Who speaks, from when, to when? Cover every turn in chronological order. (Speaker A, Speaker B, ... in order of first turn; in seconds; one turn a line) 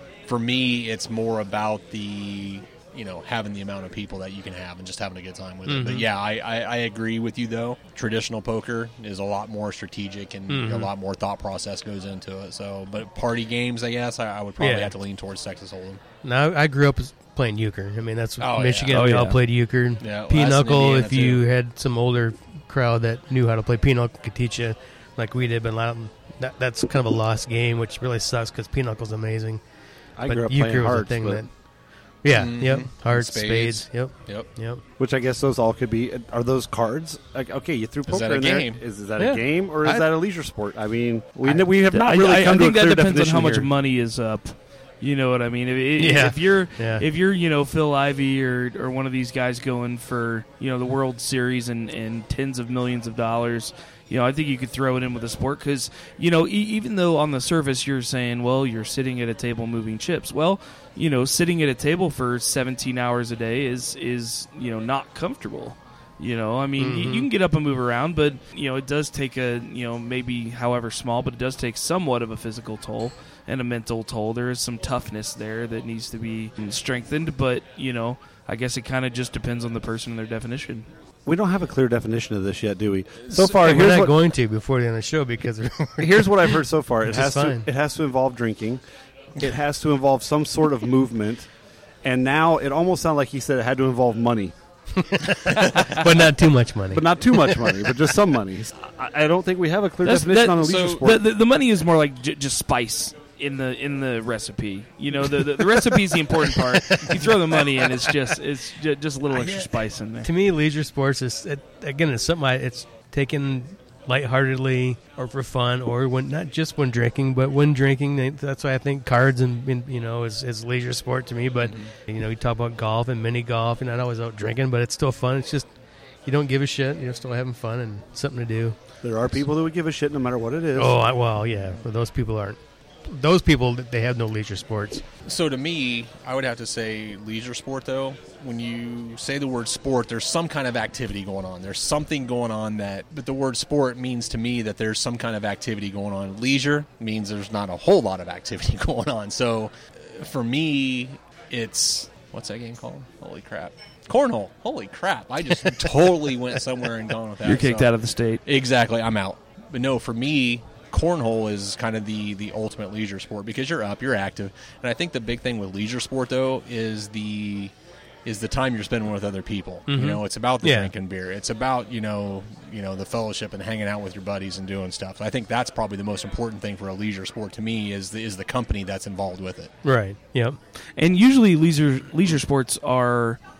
Speaker A: 0.3-16.0
Speaker B: 5.7-6.1
Speaker B: 10.5-10.9
Speaker B: 14.6-14.9
Speaker B: 16.2-29.6
Speaker A: 18.4-19.3
Speaker C: 18.9-19.4
Speaker A: 20.0-21.4
Speaker D: 30.2-31.4
Speaker B: 30.2-31.5
Speaker B: 32.2-34.8
Speaker A: 32.3-34.5
Speaker D: 35.0-43.7
Speaker A: 38.1-38.8
Speaker B: 39.2-40.1
Speaker C: 41.9-80.9
Speaker B: 46.0-47.0
Speaker B: 66.8-67.3
Speaker D: 81.2-84.1
Speaker B: 83.3-87.7
Speaker D: 86.0-88.8
Speaker D: 89.4-91.5
Speaker D: 92.0-94.5
Speaker B: 95.0-97.7
Speaker A: 95.5-95.9
Speaker D: 96.9-101.2
Speaker C: 100.0-110.3
Speaker A: 100.6-101.0
Speaker A: 109.3-109.8
Speaker B: 110.2-125.7
Speaker A: 121.7-121.9
Speaker B: 126.2-128.8
Speaker D: 129.0-131.0
Speaker B: 130.7-135.0
Speaker A: 135.2-157.9
Speaker C: 157.4-158.4
Speaker A: 158.4-167.7
Speaker A: 168.2-179.7
Speaker B: 169.9-170.9
Speaker B: 179.8-180.6
Speaker C: 181.0-183.4